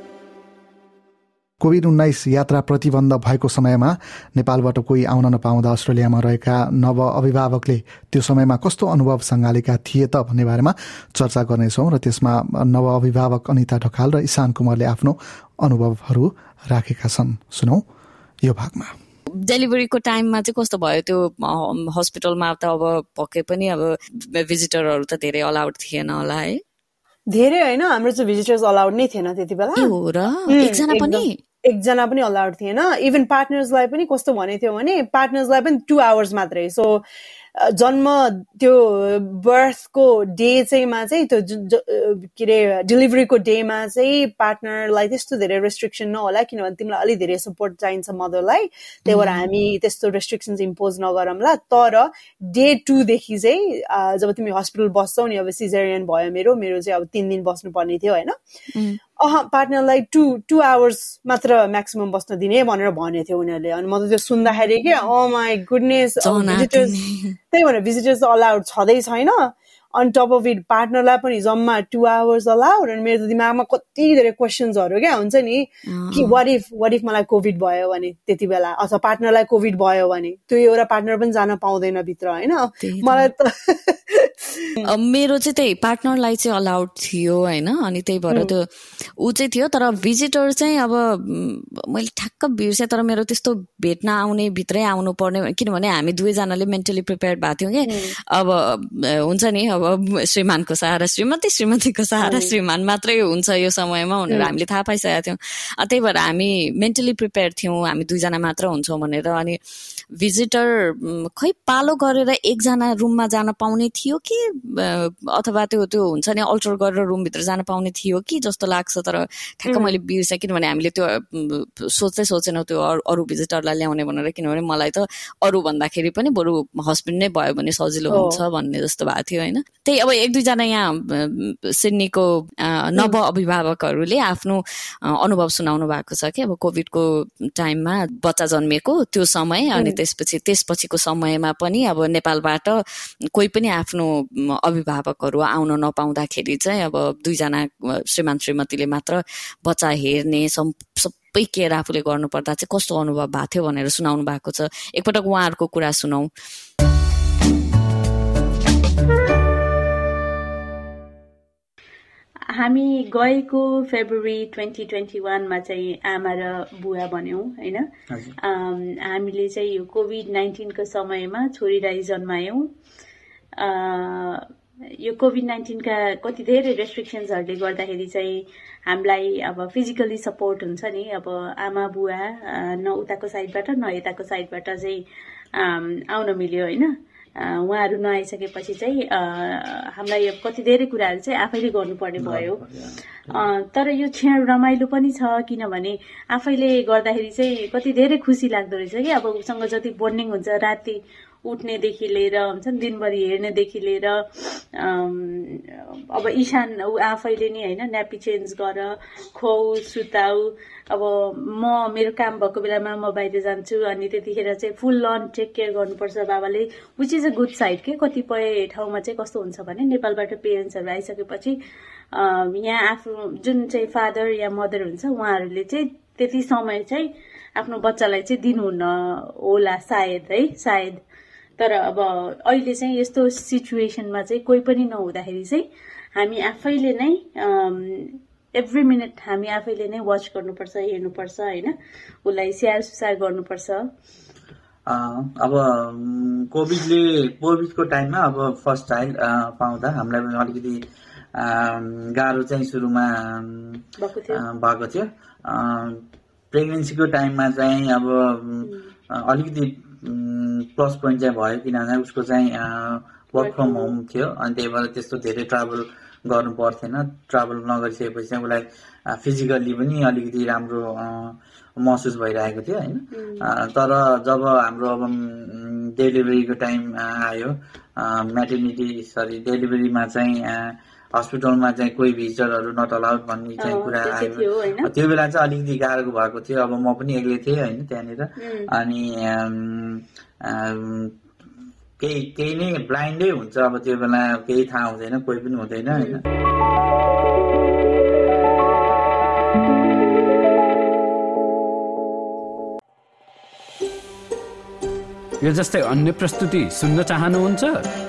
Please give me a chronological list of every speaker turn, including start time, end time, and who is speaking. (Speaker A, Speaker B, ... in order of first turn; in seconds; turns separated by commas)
Speaker A: 1.6-17.8, Speaker A: 18.4-18.9, Speaker B: 19.5-26.6, Speaker C: 27.3-29.9, Speaker B: 29.8-31.4, Speaker C: 30.5-37.0, Speaker C: 37.5-58.3, Speaker B: 49.1-49.4, Speaker B: 58.7-59.0, Speaker C: 59.2-66.9, Speaker B: 66.2-67.3, Speaker C: 67.5-84.8, Speaker B: 75.9-76.4, Speaker B: 82.8-83.3, Speaker B: 84.8-88.6, Speaker B: 89.2-109.6, Speaker B: 110.2-134.6, Speaker C: 119.7-119.9, Speaker C: 128.1-128.4, Speaker B: 135.2-142.8, Speaker C: 139.7-140.0, Speaker B: 143.3-156.3, Speaker D: 162.6-167.8, Speaker D: 168.4-172.7, Speaker D: 173.6-174.4, Speaker D: 175.0-185.0, Speaker D: 185.6-186.9, Speaker D: 187.4-192.6, Speaker E: 192.2-193.4, Speaker D: 193.3-221.6, Speaker D: 222.1-231.0, Speaker D: 231.6-235.6, Speaker D: 236.2-241.7, Speaker D: 242.2-243.8, Speaker E: 244.9-250.8, Speaker E: 251.4-253.8, Speaker D: 254.0-254.4, Speaker E: 254.4-255.9, Speaker E: 256.5-258.6, Speaker E: 259.3-268.6, Speaker D: 263.4-263.9, Speaker E: 269.2-271.2, Speaker E: 271.8-277.5, Speaker D: 273.1-273.5, Speaker E: 278.0-280.6, Speaker E: 281.2-284.4, Speaker D: 283.6-284.9, Speaker E: 284.9-288.2, Speaker D: 288.4-288.6, Speaker E: 288.8-290.0, Speaker E: 290.5-291.1, Speaker E: 292.0-296.2, Speaker D: 295.9-296.2, Speaker F: 305.4-307.9